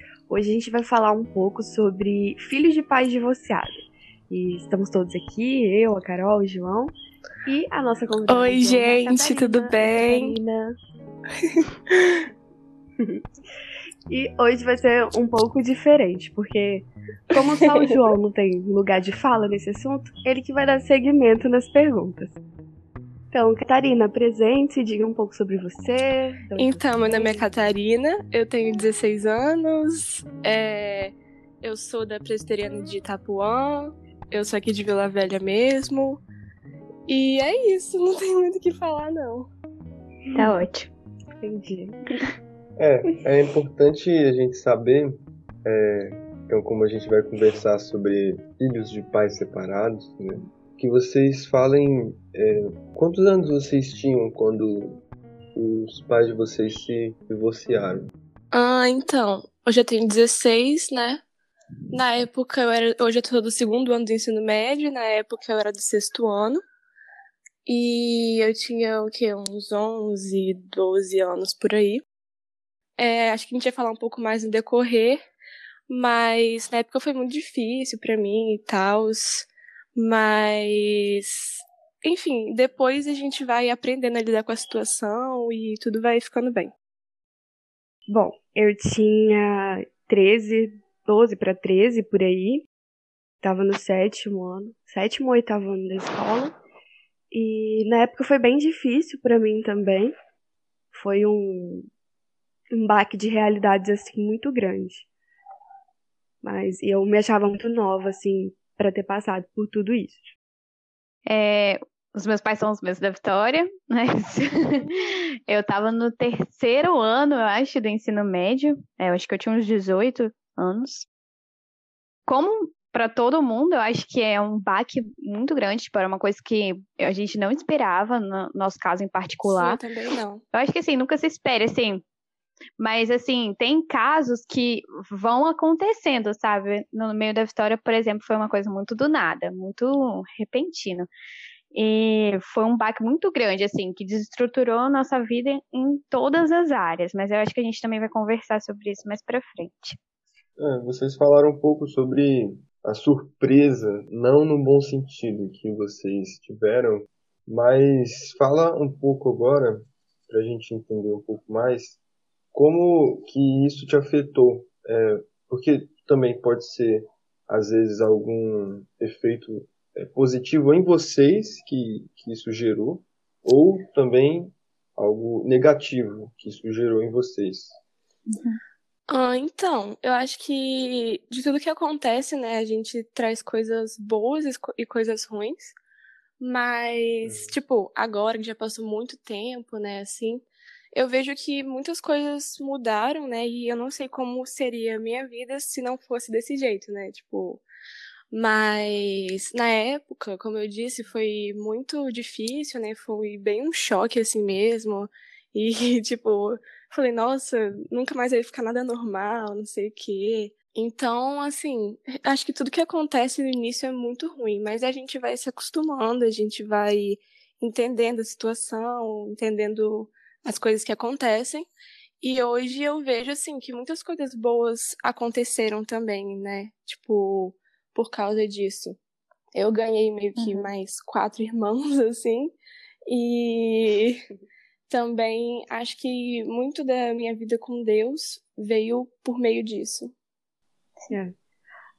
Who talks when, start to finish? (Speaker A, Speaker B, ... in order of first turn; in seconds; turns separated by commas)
Speaker A: 0.3-3.7, Speaker A: 4.3-6.9, Speaker A: 7.5-10.8, Speaker B: 8.3-10.4, Speaker B: 11.9-12.2, Speaker A: 14.1-22.4, Speaker A: 23.3-27.5, Speaker B: 26.6-36.2, Speaker B: 37.1-39.5, Speaker C: 40.3-40.9, Speaker A: 41.4-42.0, Speaker D: 42.8-55.0, Speaker D: 55.5-58.1, Speaker B: 58.5-61.2, Speaker B: 61.9-66.6, Speaker B: 67.7-72.0, Speaker B: 73.0-75.2, Speaker B: 75.9-86.7, Speaker A: 88.1-92.7, Speaker A: 93.4-96.6, Speaker A: 97.3-100.2, Speaker A: 100.9-101.9, Speaker A: 102.7-105.1, Speaker A: 106.4-110.3, Speaker C: 111.3-121.1, Speaker C: 122.3-129.8, Speaker B: 129.6-130.4, Speaker C: 130.5-132.0, Speaker C: 132.8-141.1, Speaker C: 141.7-150.0, Speaker D: 150.6-162.0, Speaker D: 162.5-177.8, Speaker B: 179.1-185.8, Speaker B: 186.4-197.6, Speaker B: 198.3-221.7, Speaker B: 222.2-229.0, Speaker B: 229.5-232.5, Speaker C: 230.4-230.7, Speaker B: 233.1-234.2, Speaker B: 234.9-240.1